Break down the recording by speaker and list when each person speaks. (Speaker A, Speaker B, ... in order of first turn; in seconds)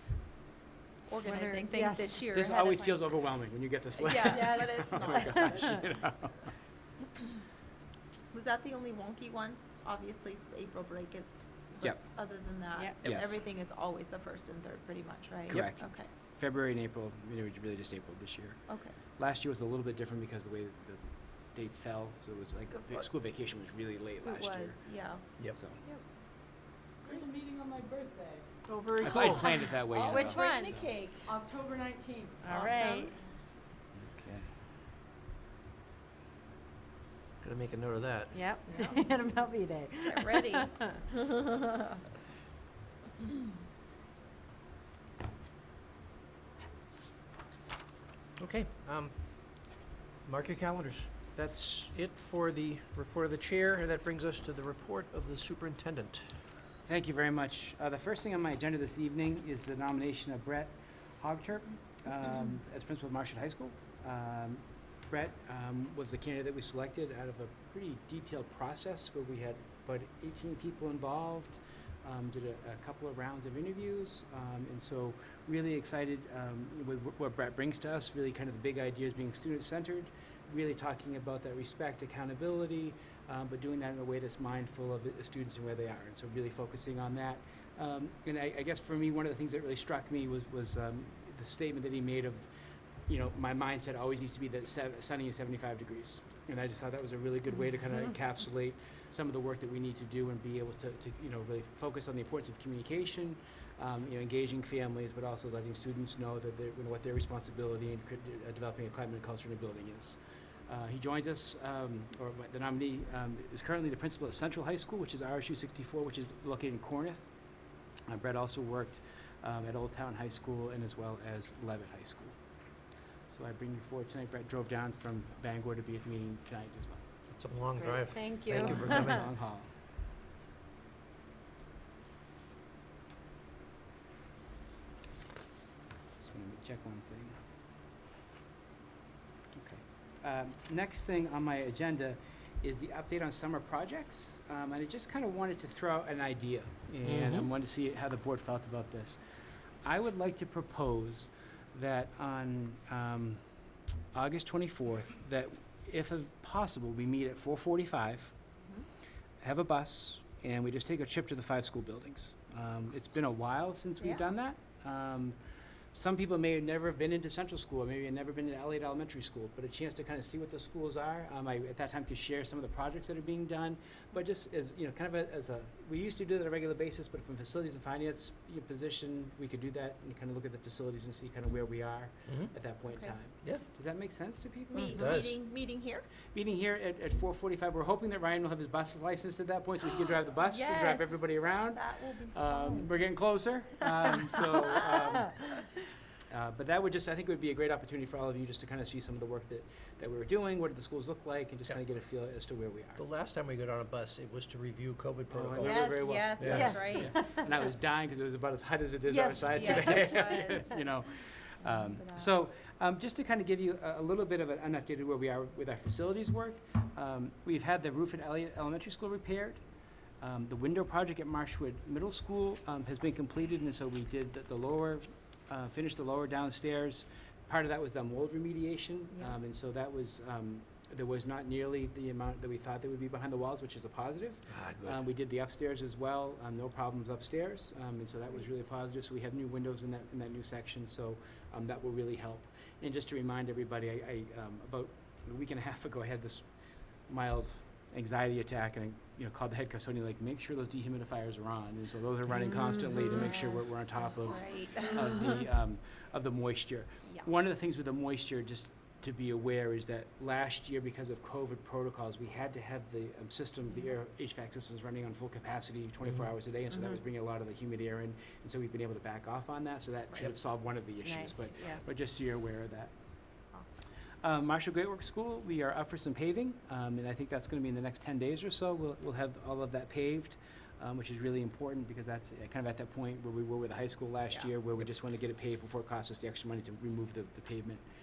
Speaker A: 1.1-3.0, 4.0-5.6, 8.3-16.1, 18.7-19.0, 24.2-25.3, 29.9-31.3, 32.5-33.1, 38.7-39.0, 40.1-40.7, 164.0-164.2, 184.7-186.1, 190.4-192.9, 194.4-195.0, 205.9-207.2, 209.5-210.7, 211.6-212.3, 229.1-229.4, 238.3-238.7, 253.0-255.1, 273.5-273.8
Speaker B: 1.2-2.2, 30.1-30.7, 32.4-33.1, 38.3-41.7, 127.7-129.2, 205.6-207.5, 209.1-210.7, 253.1-253.3, 271.0-271.8
Speaker C: 2.3-6.5, 13.0-13.3, 15.5-24.8, 25.4-25.8, 29.0-30.9, 34.0-34.5, 56.9-92.5, 93.1-117.3, 118.1-122.3, 123.3-127.0, 128.5-129.7, 136.2-137.3, 139.6-149.2, 149.8-153.4, 154.1-158.3, 159.4-165.4, 165.9-185.2, 186.3-195.6, 196.3-203.0, 205.3-219.6, 220.2-246.4, 247.1-272.9, 274.2-287.8
Speaker D: 27.0-28.5, 31.2-33.1
Speaker E: 28.7-29.6, 37.4-38.4, 48.4-49.6, 50.2-56.3, 127.3-129.3, 147.0-147.5, 182.3-182.5, 184.8-185.3, 203.0-206.8, 234.5-235.0